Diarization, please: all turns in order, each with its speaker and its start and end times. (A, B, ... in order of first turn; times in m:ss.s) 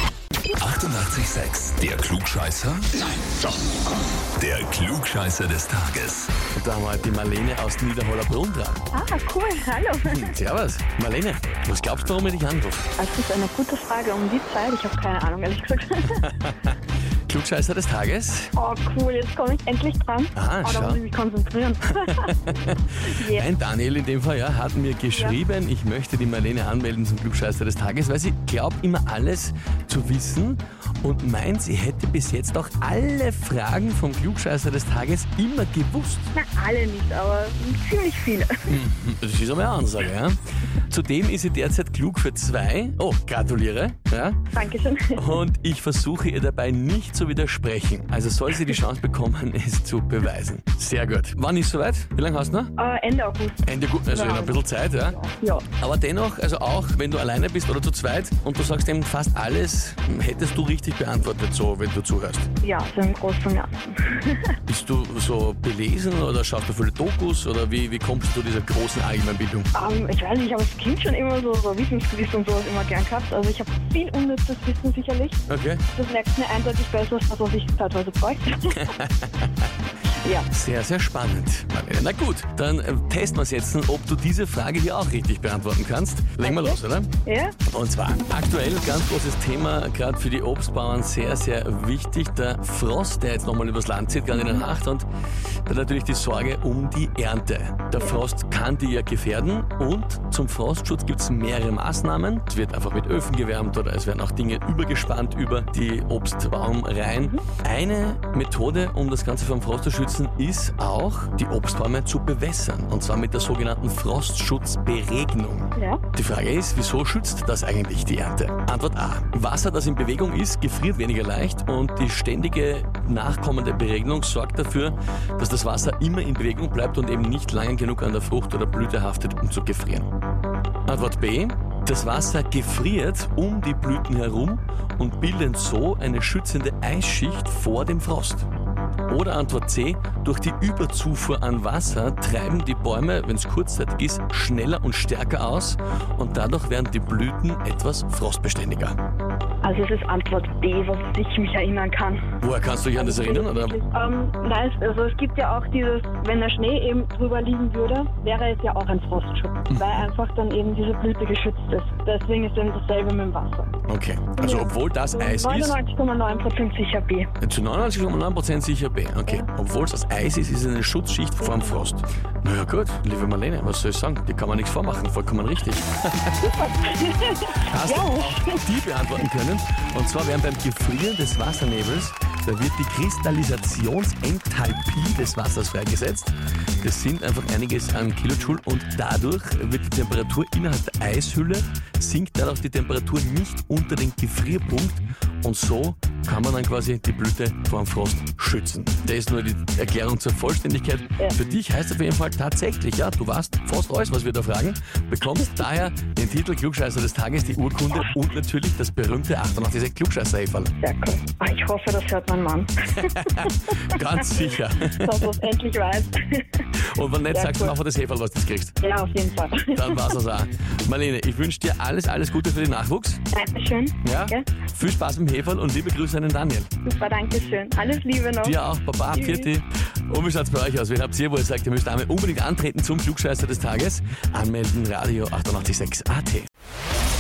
0:00.6-0:03.5 A
0:04.2-0:06.4 A
0:06.5-0:08.8 B
0:08.9-0:10.3 C
0:10.0-0:12.9 B
0:13.0-0:16.3 C
0:16.2-0:16.8 B
0:17.3-0:18.5 B
0:18.6-0:22.3 C
0:20.4-0:21.0 B
0:21.9-0:36.3 B
0:23.0-0:23.5 C
0:36.4-0:38.7 C
0:38.7-0:44.4 B
0:44.5-0:45.4 C
0:45.1-0:52.7 B
0:52.8-0:55.7 C
0:53.6-0:55.2 B
0:55.8-1:02.5 B
1:02.6-1:04.6 C
1:04.7-1:09.7 B
1:09.7-1:15.4 C
1:15.5-1:15.8 B
1:16.0-1:18.8 C
1:18.8-1:19.7 B
1:20.2-1:20.5 C
1:20.5-1:27.1 B
1:26.4-1:27.6 C
1:27.7-1:35.1 B
1:35.7-2:10.1 B
1:55.8-1:56.0 C
2:10.9-2:18.5 B
2:19.1-2:29.0 B
2:29.6-2:32.2 C
2:32.4-2:33.8 B
2:33.0-2:43.7 C
2:39.7-2:40.0 B
2:43.9-2:45.8 B
2:44.4-2:47.3 C
2:47.4-2:56.5 B
2:51.4-2:51.8 C
2:56.4-2:58.6 C
2:57.6-3:30.7 B
3:30.8-3:34.0 C
3:33.0-3:35.2 B
3:35.0-3:36.7 C
3:36.8-3:38.8 B
3:37.3-3:37.7 C
3:38.8-3:40.1 C
3:39.7-3:43.2 B
3:43.3-3:44.4 C
3:44.0-3:46.7 B
3:46.8-3:48.6 C
3:48.4-3:56.5 B
3:49.1-3:49.5 C